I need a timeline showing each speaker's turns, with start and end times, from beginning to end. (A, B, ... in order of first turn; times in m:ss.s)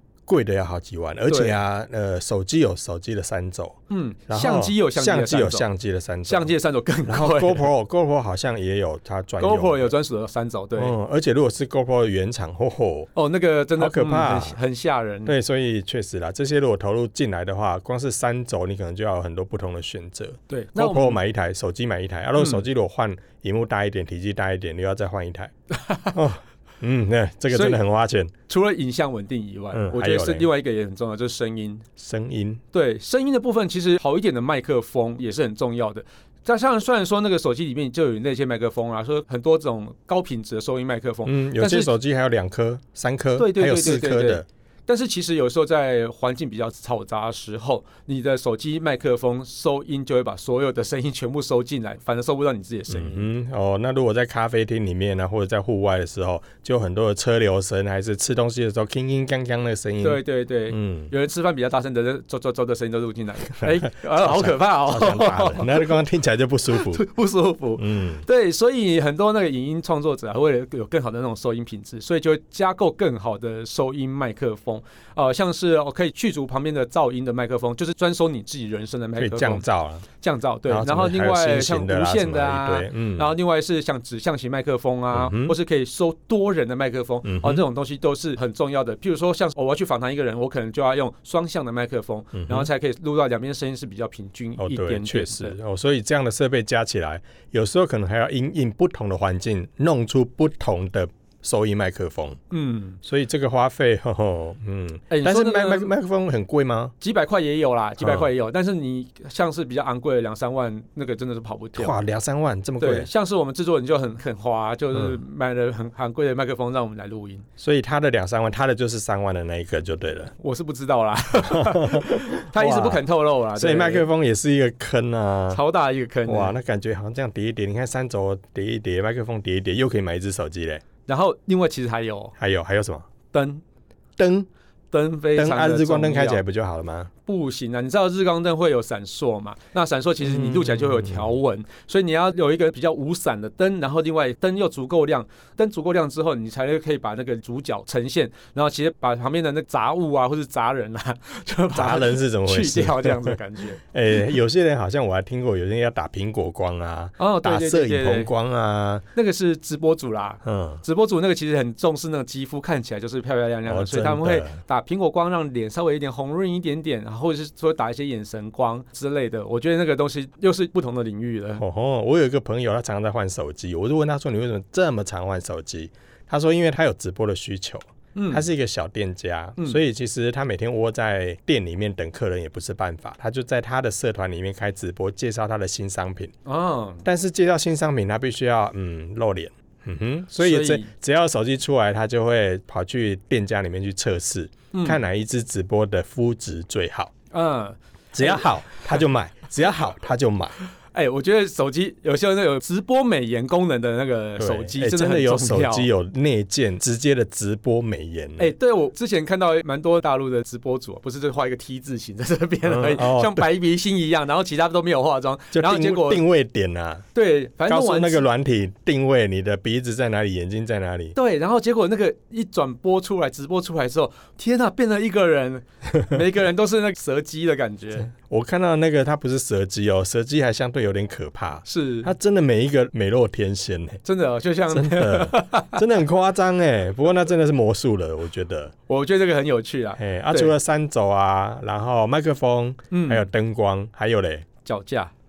0:00.3-0:06.5 A
0:01.3-0:01.5 B
0:03.9-0:05.6 B
0:06.2-0:07.7 B
0:07.0-0:09.9 A
0:09.4-0:10.9 B
0:10.8-0:13.1 A
0:13.1-0:15.3 B
0:13.8-0:14.6 A
0:15.2-0:25.5 A
0:20.5-0:21.2 B
0:22.4-0:22.6 B
0:25.7-0:26.1 B
0:26.1-0:28.3 A
0:27.5-0:27.8 B
0:28.5-0:31.9 B
0:29.7-0:30.5 A
0:32.0-0:32.6 A
0:32.7-0:41.9 B
0:41.2-0:44.4 A
0:43.4-0:53.3 B
0:52.9-1:01.1 A
1:00.0-1:05.9 B
1:03.6-1:07.0 A
1:06.7-1:19.6 B
1:07.8-1:08.2 A
1:19.2-1:20.0 A
1:20.2-1:35.6 B
1:20.7-1:23.3 A
1:25.1-1:25.5 A
1:27.2-1:27.6 A
1:32.3-1:32.7 A
1:34.6-1:42.4 A
1:42.5-1:43.0 B
1:43.0-1:46.9 A
1:45.1-1:45.9 B
1:47.0-1:52.0 B
1:48.0-1:48.3 A
1:51.8-1:53.1 A
1:52.8-1:57.4 B
1:57.6-2:00.3 A
2:00.4-2:04.0 B
2:01.4-2:03.0 A
2:03.5-2:05.6 A
2:05.5-2:06.5 B
2:06.2-2:10.8 A
2:11.1-2:12.3 B
2:12.4-2:13.1 A
2:13.3-2:13.6 B
2:14.2-2:14.5 A
2:14.9-2:16.4 B
2:15.3-2:17.1 A
2:17.2-2:33.8 B
2:20.2-2:21.3 A
2:31.7-2:39.0 A
2:37.2-2:38.3 B
2:39.1-2:51.6 B
2:40.4-2:40.8 A
2:43.7-2:44.6 A
2:51.6-3:06.3 A
2:58.1-2:58.4 B
3:06.4-3:07.0 B
3:07.0-3:17.1 A
3:10.4-3:10.9 B
3:14.7-3:15.0 B
3:17.3-3:18.8 B
3:18.1-3:20.6 A
3:20.9-3:25.9 B
3:24.4-3:28.5 A
3:28.4-3:36.2 B
3:32.6-3:33.4 A
3:35.5-3:37.0 A
3:37.1-3:38.2 B
3:37.7-3:41.2 A
3:41.1-3:48.1 B
3:48.1-3:54.0 A
3:51.6-3:52.1 B
3:54.0-3:55.8 B
3:54.7-3:58.7 A
3:58.9-4:00.5 B
4:00.0-4:04.4 A
4:02.9-4:03.2 B
4:04.6-4:05.1 B